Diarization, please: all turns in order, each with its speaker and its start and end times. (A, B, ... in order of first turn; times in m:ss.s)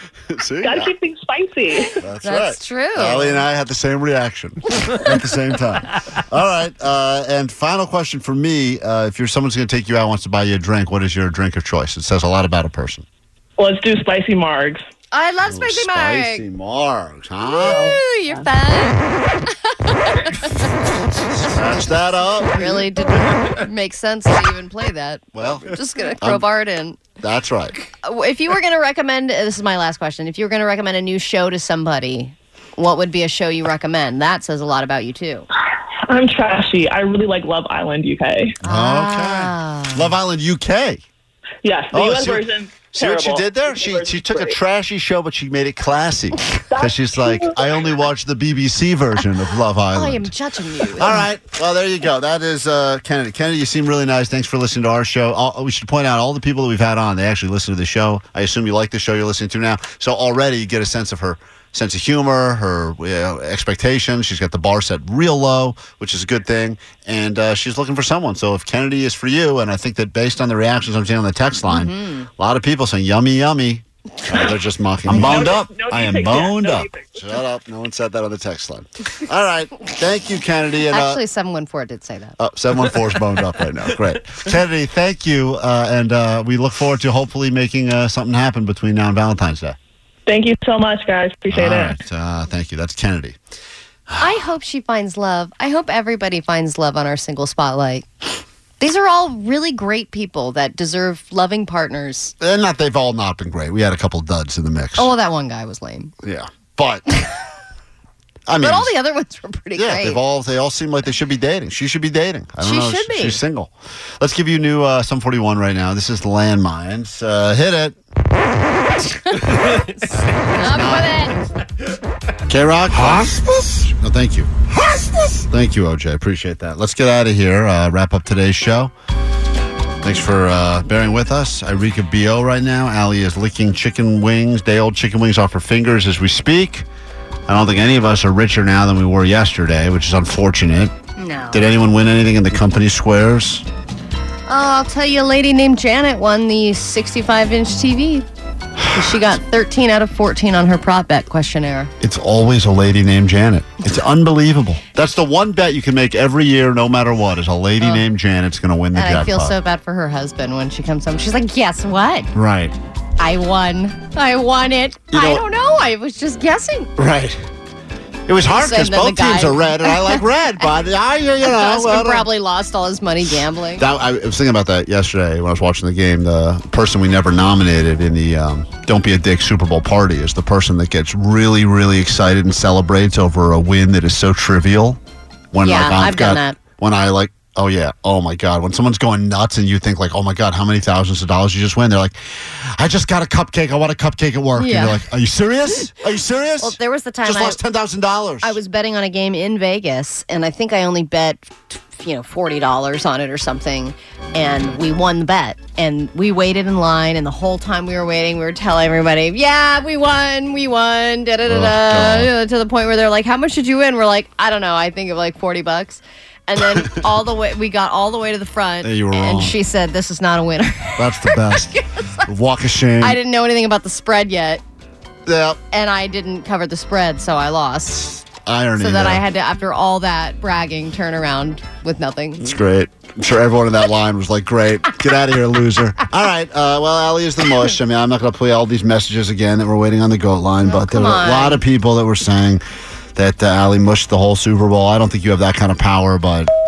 0:00.3-0:00.9 A
0:00.6-0:01.9 B
0:02.0-0:13.0 A
0:02.2-0:03.4 C
0:13.6-0:14.8 B
0:15.1-0:16.4 C
0:15.4-0:17.9 A
0:17.6-0:18.3 B
0:17.6-0:20.3 C
0:21.4-0:27.0 C
0:21.5-0:22.9 A
0:25.3-0:25.7 A
0:27.2-0:27.9 A
0:28.0-0:35.4 C
0:36.1-0:38.6 B
0:38.6-0:40.1 C
0:38.6-0:41.0 A
0:41.6-0:44.6 B
0:41.9-0:50.3 A
0:46.7-0:47.9 B
0:49.9-0:51.2 C
0:50.9-1:21.2 A
1:11.6-1:12.3 C
1:15.0-1:17.3 B
1:20.9-1:22.3 C
1:22.4-1:29.8 A
1:30.3-1:32.0 B
1:31.5-1:33.4 A
1:34.1-1:34.4 A
1:34.2-1:38.1 C
1:38.8-1:42.3 C
1:42.4-1:45.1 A
1:45.0-1:46.1 C
1:46.2-1:47.0 A
1:48.5-1:48.9 A
1:48.6-1:50.2 C
1:49.8-1:58.0 A
1:52.6-1:53.4 C
1:59.1-2:00.0 C
2:00.1-2:01.2 A
2:00.6-2:01.4 C
2:02.5-2:04.5 A
2:05.5-2:08.9 A
2:10.0-2:16.9 A
2:17.5-2:20.9 A
2:21.2-2:21.6 C
2:21.5-2:23.6 A
2:24.5-2:28.2 C
2:28.9-2:31.9 C
2:32.0-2:39.5 A
2:38.9-2:42.3 C
2:42.3-2:42.7 A
2:43.2-2:46.9 C
2:45.1-2:45.4 A
2:47.0-2:47.4 A
2:48.3-2:52.3 A
2:48.6-2:50.2 C
2:51.4-2:53.8 C
2:53.8-3:05.0 A
3:05.5-3:18.6 A
3:05.6-3:06.6 C
3:14.6-3:15.0 C
3:16.6-3:17.6 C
3:18.4-3:41.0 C
3:31.4-3:32.3 A
3:36.6-3:36.9 A
3:38.8-3:39.5 A
3:41.0-3:41.7 A
3:41.5-3:42.2 C
3:42.2-3:43.2 A
3:43.0-3:44.6 C
3:45.2-3:45.6 A
3:45.7-3:48.2 C
3:48.4-3:49.2 A
3:48.8-3:52.4 C
3:52.4-4:02.6 A
4:00.6-4:01.6 C
4:03.1-4:06.5 A